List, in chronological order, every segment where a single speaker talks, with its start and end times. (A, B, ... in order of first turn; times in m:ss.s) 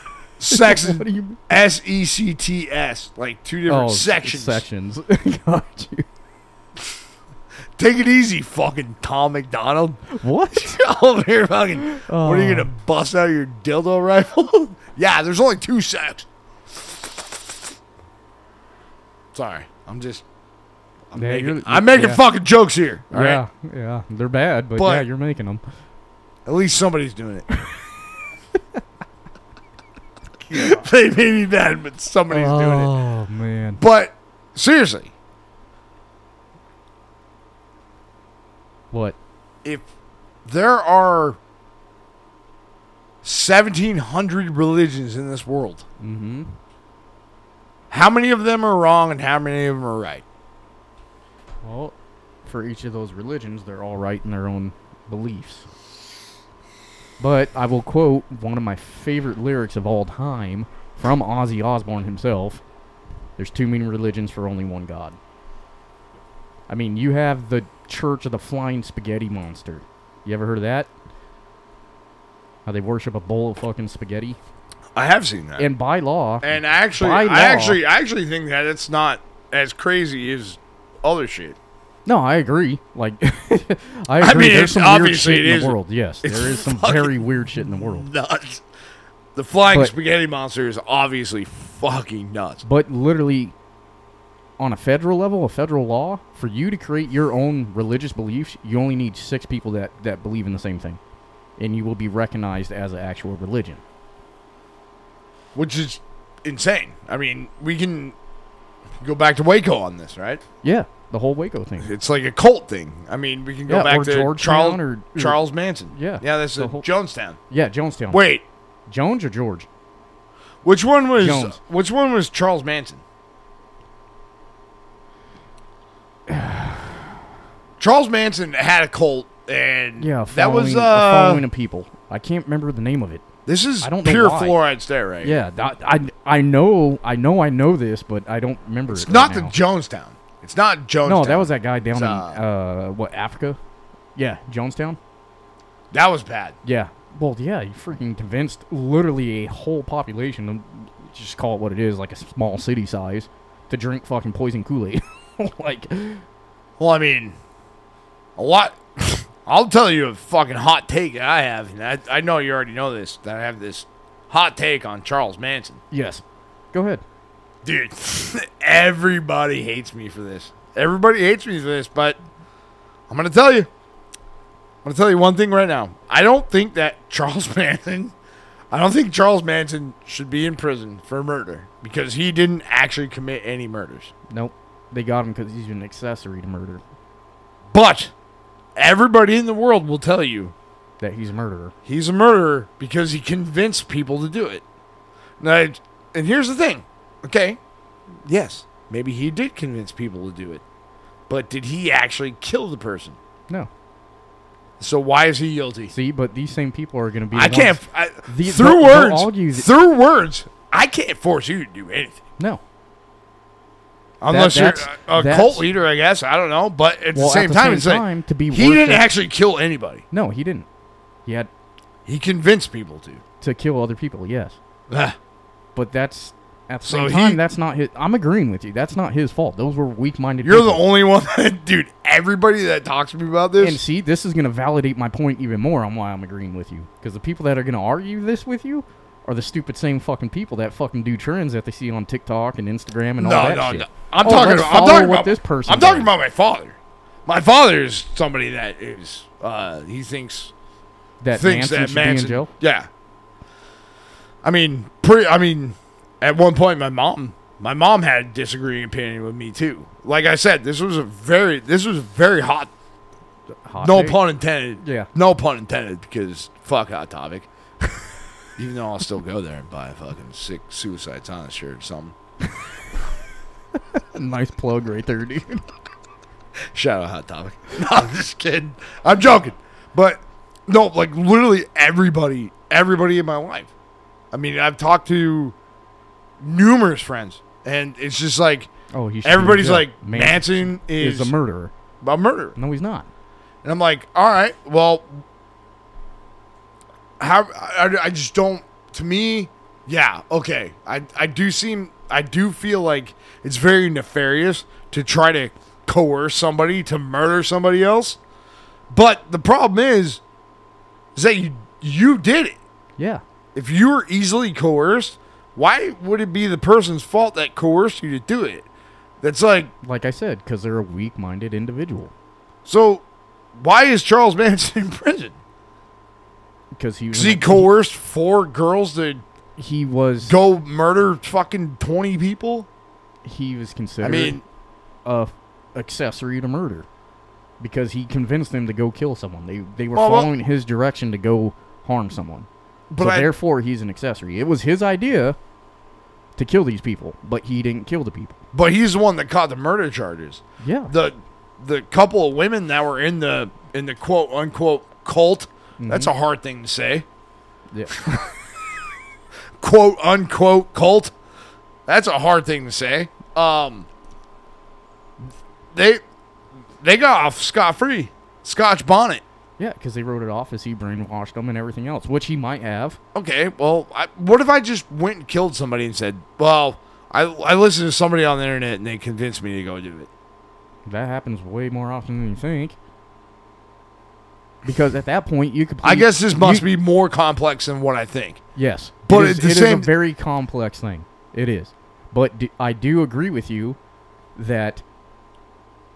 0:00.4-0:04.6 A
0:00.5-0:01.4 B
0:03.7-0:06.1 B
0:07.8-0:17.3 A
0:10.1-0:10.8 B
0:11.9-0:12.7 B
0:19.3-0:20.2 A
0:21.1-0:23.4 A
0:21.2-0:22.2 B
0:23.1-0:25.6 B
0:24.8-0:25.1 A
0:26.5-0:27.4 A
0:30.5-0:32.9 A
0:30.5-0:30.8 B
0:32.3-0:33.8 B
0:33.8-0:35.1 A
0:40.4-0:41.4 A
0:43.2-0:45.8 A
0:46.0-0:46.6 B
0:47.9-0:50.2 A
0:51.6-0:51.9 B
0:52.4-0:55.7 B
0:57.2-1:02.6 B
1:03.4-1:05.2 B
1:06.7-1:10.9 B
1:12.7-1:14.4 B
1:15.0-1:15.7 A
1:15.6-1:17.8 B
1:16.4-1:21.6 A
1:22.1-1:28.1 B
1:24.2-1:28.6 A
1:29.4-1:32.6 A
1:32.6-1:33.5 B
1:34.6-1:41.0 B
1:41.6-1:43.8 B
1:45.5-1:48.2 A
1:49.0-1:50.4 A
1:50.6-1:51.9 B
1:51.8-1:57.4 A
1:53.7-1:56.9 B
1:57.5-1:58.2 B
1:58.1-1:58.4 A
1:58.9-1:59.7 B
2:00.6-2:03.0 A
2:01.2-2:01.6 B
2:06.3-2:07.0 B
2:07.8-2:11.5 A
2:10.0-2:13.2 B
2:13.5-2:15.4 A
2:13.8-2:14.6 B
2:15.2-2:19.6 B
2:18.9-2:22.4 A
2:21.0-2:23.6 B
2:24.2-2:25.0 B
2:25.9-2:26.6 A
2:26.6-2:36.2 B
2:36.8-2:37.4 A
2:38.4-2:45.8 A
2:45.9-2:47.0 B
2:47.6-2:52.2 A
2:53.1-2:53.7 A
2:54.8-2:58.1 A
2:58.7-3:04.1 A
3:04.3-3:06.8 B
3:07.7-3:08.1 A
3:08.8-3:10.5 A
3:11.0-3:11.8 B
3:11.9-3:14.6 A
3:15.4-3:17.6 A
3:18.2-3:20.6 A
3:21.3-3:23.2 A
3:24.8-3:25.9 A
3:25.9-3:29.7 B
3:27.3-3:32.2 A
3:34.2-3:40.0 A
3:34.3-3:35.7 B
3:37.1-3:39.1 B
3:40.1-3:40.7 B
3:42.1-3:43.2 A
3:43.4-3:44.6 B
3:44.9-3:45.2 A
3:45.8-3:50.8 B
3:46.8-3:47.4 A
3:50.4-3:53.8 A
3:53.6-4:06.1 B
4:03.2-4:10.5 A
4:11.2-4:12.5 B
4:11.3-4:12.9 A
4:14.4-4:22.7 A
4:23.6-4:24.2 B
4:23.8-4:27.5 A
4:24.8-4:25.1 B
4:28.6-4:32.2 A
4:33.9-4:35.6 B
4:36.7-4:43.7 A
4:44.3-4:45.6 A
4:46.4-4:48.7 A
4:48.9-4:51.7 B
4:49.2-4:51.3 A
4:52.0-4:52.6 A
4:52.6-4:53.1 B
4:53.6-4:55.2 A
4:57.2-5:08.2 A
5:08.9-5:10.2 A
5:11.2-5:12.6 A
5:13.0-5:13.2 B
5:13.6-5:18.7 A
5:19.2-5:19.7 A
5:19.8-5:22.1 B
5:22.7-5:23.0 A
5:23.6-5:25.4 A
5:26.8-5:27.7 B
5:27.1-5:29.2 A
5:29.6-5:30.4 B
5:30.2-5:32.7 A
5:33.2-5:34.4 B
5:34.0-5:34.4 A
5:35.0-5:36.9 B
5:37.6-5:45.4 B
5:40.0-5:40.3 A
5:42.9-5:43.3 A
5:46.4-5:48.4 B
5:48.5-5:57.1 A
5:50.6-5:50.9 B
5:55.8-5:56.1 B
5:57.7-5:58.3 B
5:59.6-6:01.1 A
6:01.9-6:03.9 A
6:05.2-6:06.0 A
6:06.8-6:09.2 A
6:09.6-6:13.0 B
6:13.1-6:20.1 A
6:20.9-6:22.8 B
6:24.6-6:26.7 B
6:25.8-6:28.4 A
6:28.6-6:33.8 B
6:29.1-6:29.9 A
6:34.4-6:34.8 B